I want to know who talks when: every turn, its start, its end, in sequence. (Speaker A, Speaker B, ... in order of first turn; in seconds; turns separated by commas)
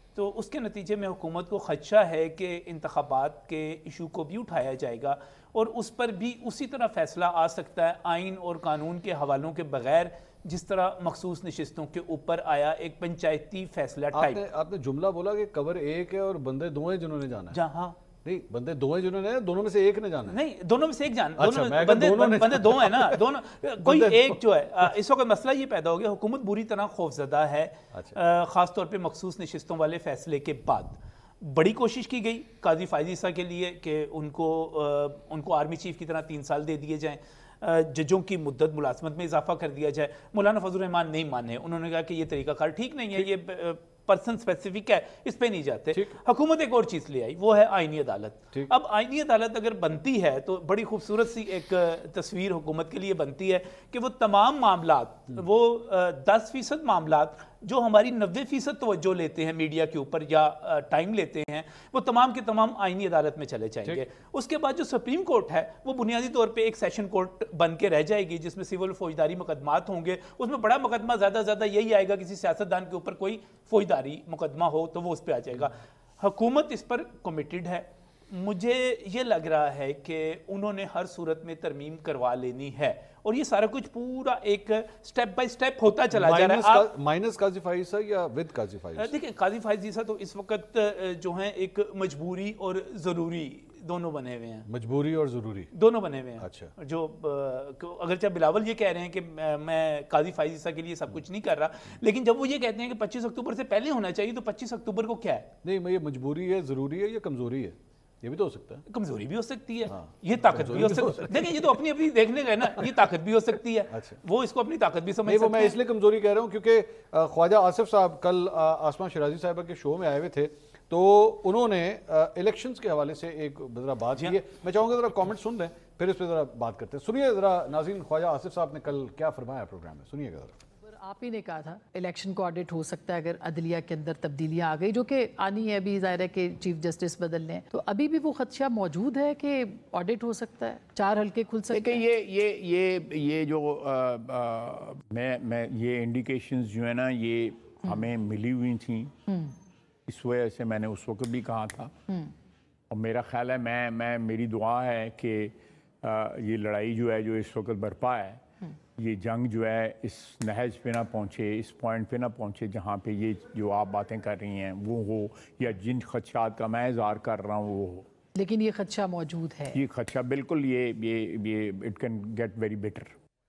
Speaker A: 0.1-14.4, Speaker B: 14.1-17.6, Speaker A: 17.5-18.0, Speaker B: 18.2-20.4, Speaker A: 20.3-86.9, Speaker B: 21.4-23.2, Speaker B: 23.8-24.4, Speaker B: 86.1-89.1, Speaker A: 89.0-94.7, Speaker B: 94.7-95.7, Speaker A: 95.7-105.5, Speaker B: 96.4-96.7, Speaker B: 105.6-108.8, Speaker A: 108.9-115.8, Speaker B: 109.9-111.7, Speaker B: 113.9-114.2, Speaker B: 115.2-130.5, Speaker A: 124.1-124.4, Speaker C: 130.9-142.0, Speaker D: 141.7-149.2, Speaker D: 150.1-151.9, Speaker D: 152.9-158.4, Speaker D: 158.9-168.1, Speaker C: 168.3-169.8, Speaker D: 169.7-173.1